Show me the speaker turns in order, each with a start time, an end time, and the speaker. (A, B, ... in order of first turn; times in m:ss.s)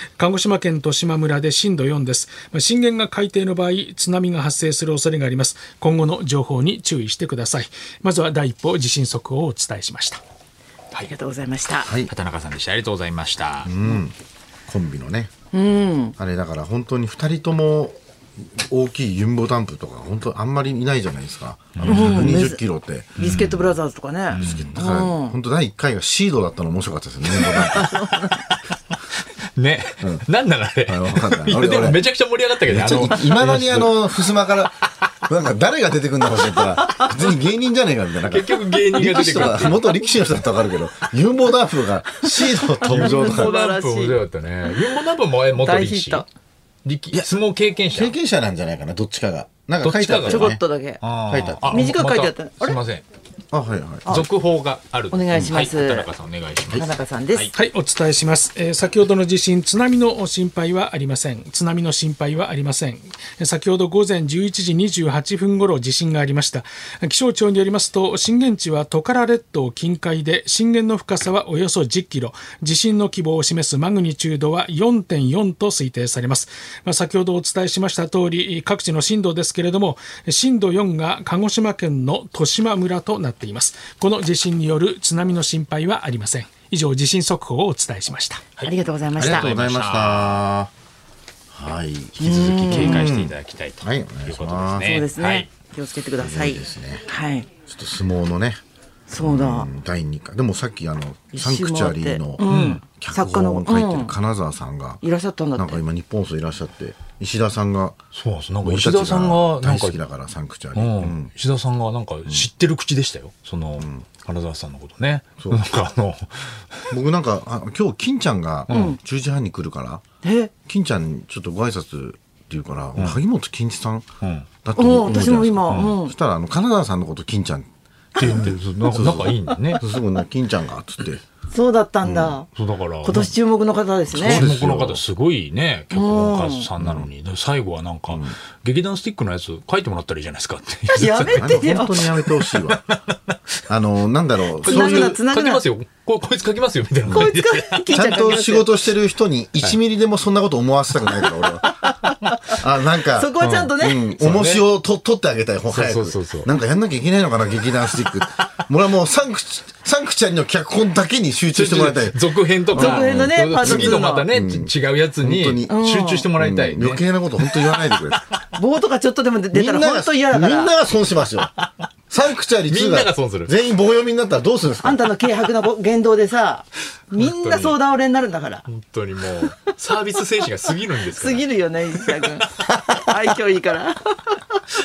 0:00.2-0:10.2 A
0:11.0-0:11.9 B
0:11.8-0:12.1 C
0:12.1-0:13.7 D
0:13.6-0:14.1 C
0:14.7-0:15.3 C
0:15.5-0:16.1 B
0:16.2-0:18.0 C
0:18.5-0:23.3 C
0:21.7-0:22.4 D
0:21.9-0:22.6 B
0:23.2-0:25.3 B
0:23.2-0:23.7 D
0:24.3-0:24.8 D
0:24.3-0:27.9 C
0:27.7-0:28.4 B
0:29.5-0:34.0 D
0:30.9-0:32.0 C
0:32.6-0:43.5 C
0:38.3-0:39.8 D
0:39.2-0:39.8 B
0:42.8-0:46.2 D
0:42.9-0:44.2 B
0:45.5-0:46.2 B
0:46.8-0:48.1 D
0:47.9-0:50.6 C
0:49.8-0:53.0 D
0:50.3-0:51.0 B
0:51.3-0:51.9 C
0:51.7-0:52.8 B
0:53.5-0:54.2 C
0:54.1-0:57.5 D
0:55.1-0:56.1 B
0:56.8-0:57.5 B
0:57.5-1:28.4 A
1:28.6-1:30.4 D
1:28.6-1:29.4 B
1:29.2-1:30.7 C
1:31.5-1:34.9 C
1:32.2-1:35.5 D
1:32.2-1:33.1 B
1:34.8-1:37.5 B
1:36.2-1:37.1 C
1:37.6-1:38.6 C
1:39.1-1:39.7 B
1:39.2-1:45.0 C
1:41.3-1:44.1 B
1:42.5-1:42.8 D
1:45.0-1:45.8 B
1:45.6-1:48.0 C
1:48.1-1:50.0 D
1:48.6-1:51.3 C
1:50.7-1:56.9 D
1:53.8-1:54.1 C
1:56.9-2:00.0 C
1:58.7-1:58.9 D
1:58.7-1:59.0 B
2:00.2-2:00.5 B
2:00.7-2:04.0 C
2:04.2-2:04.5 D
2:04.6-2:07.7 C
2:04.8-2:06.1 B
2:05.7-2:05.9 D
2:08.2-2:08.5 B
2:08.2-2:09.8 D
2:08.2-2:11.2 C
2:11.5-2:12.5 B
2:12.0-2:12.4 C
2:12.5-2:13.3 D
2:13.0-2:14.4 B
2:14.1-2:15.0 C
2:14.1-2:23.4 D
2:15.9-2:16.7 B
2:16.8-2:17.1 C
2:18.1-2:18.4 C
2:20.9-2:22.0 B
2:21.2-2:22.8 C
2:23.7-2:25.2 C
2:24.6-2:27.9 D
2:24.6-2:25.6 B
2:27.1-2:28.7 B
2:27.9-2:42.2 C
2:31.8-2:32.5 B
2:33.1-2:34.2 B
2:33.4-2:33.7 D
2:34.2-2:34.6 D
2:35.7-2:36.5 D
2:41.5-2:48.4 D
2:42.7-2:45.8 C
2:42.7-2:44.3 B
2:45.7-2:46.3 B
2:46.4-2:48.2 C
2:48.5-2:50.7 B
2:49.5-2:51.5 C
2:52.1-2:55.0 C
2:52.7-2:53.5 D
2:54.8-2:58.6 B
2:57.2-2:57.8 D
2:58.6-3:01.5 D
3:01.1-3:04.4 B
3:02.0-3:02.3 D